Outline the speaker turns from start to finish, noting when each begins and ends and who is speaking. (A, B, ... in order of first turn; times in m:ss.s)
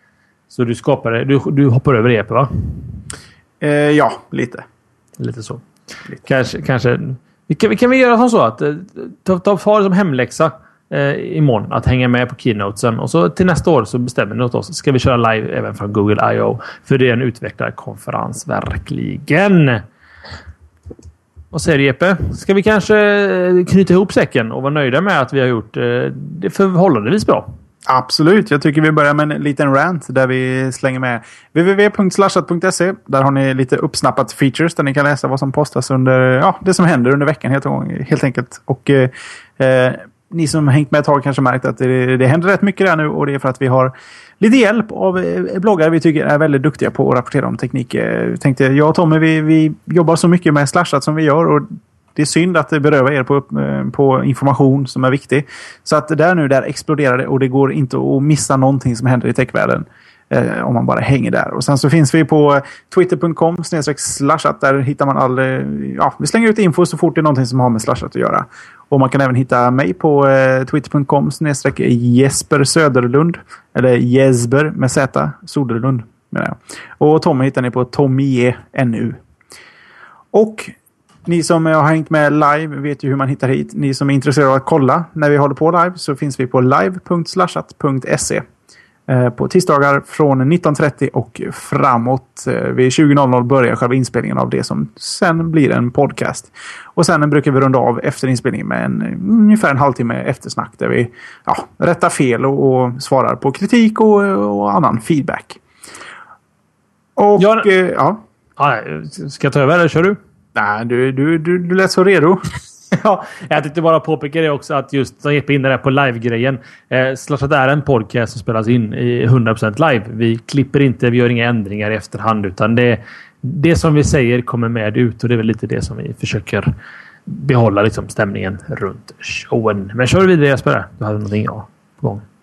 0:00.5-0:02.8 A
0:03.6-0:04.6 B
0:05.2-0:05.6 A
0:06.2-0:19.8 A
0:21.5-0:27.5 A
0:27.8-1:19.2 B
1:20.3-1:20.7 B
1:21.2-1:28.4 B
1:29.1-1:45.6 B
1:47.2-1:48.2 B
1:47.4-1:47.7 A
1:48.6-1:50.2 A
1:50.5-1:52.4 B
1:52.9-2:06.7 A
2:07.3-2:12.2 A